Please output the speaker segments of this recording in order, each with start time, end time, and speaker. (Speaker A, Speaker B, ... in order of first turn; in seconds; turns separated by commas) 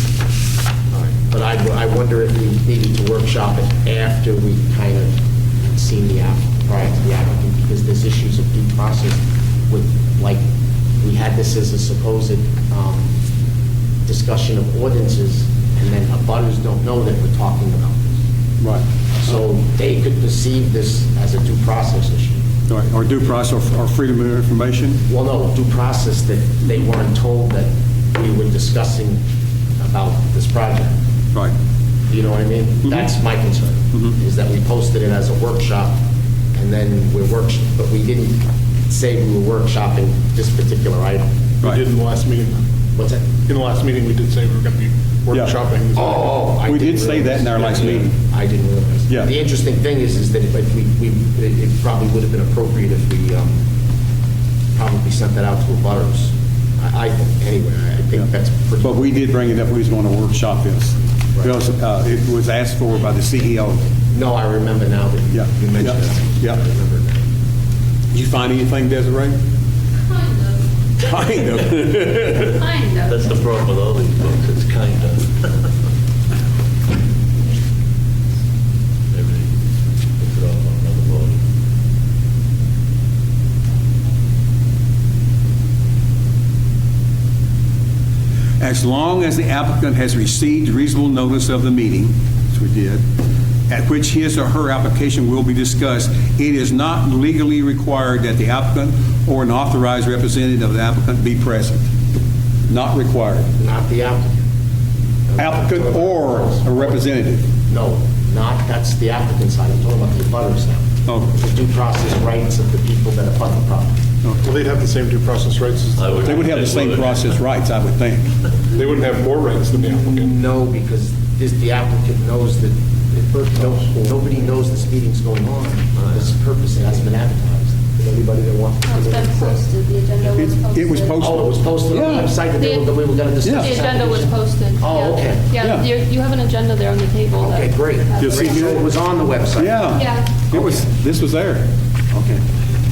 Speaker A: 0.9-10.4, Speaker A: 11.0-13.1, Speaker A: 14.1-18.2, Speaker A: 19.1-22.5, Speaker B: 22.7-25.0, Speaker A: 25.1-29.2, Speaker A: 29.8-30.9, Speaker A: 32.1-36.0, Speaker A: 36.5-41.3, Speaker C: 41.6-42.6, Speaker A: 43.0-43.3, Speaker C: 43.5-46.3, Speaker A: 45.9-53.6, Speaker B: 46.6-48.1, Speaker A: 54.8-59.3, Speaker B: 58.8-63.9, Speaker A: 61.4-61.6, Speaker A: 64.1-67.3, Speaker B: 65.3-66.6, Speaker B: 68.1-69.4, Speaker D: 70.0-70.7, Speaker B: 71.0-72.6, Speaker D: 72.5-73.2, Speaker E: 73.1-75.7, Speaker E: 79.1-79.5, Speaker E: 80.2-81.4, Speaker B: 88.6-93.0, Speaker B: 93.7-101.9, Speaker B: 102.7-103.5, Speaker A: 103.6-104.4, Speaker A: 105.3-106.9, Speaker B: 105.4-107.5, Speaker A: 107.6-114.0, Speaker C: 114.4-116.4, Speaker E: 116.0-117.2, Speaker B: 116.2-118.3, Speaker C: 118.7-120.3, Speaker A: 119.9-128.2, Speaker D: 128.8-131.2, Speaker B: 130.2-132.4, Speaker A: 131.2-135.5, Speaker D: 132.6-132.9, Speaker B: 133.4-133.8, Speaker D: 133.4-138.7, Speaker B: 135.6-135.9, Speaker A: 137.4-140.0, Speaker B: 138.2-138.8, Speaker B: 139.6-142.4, Speaker D: 139.9-140.3, Speaker A: 140.5-140.8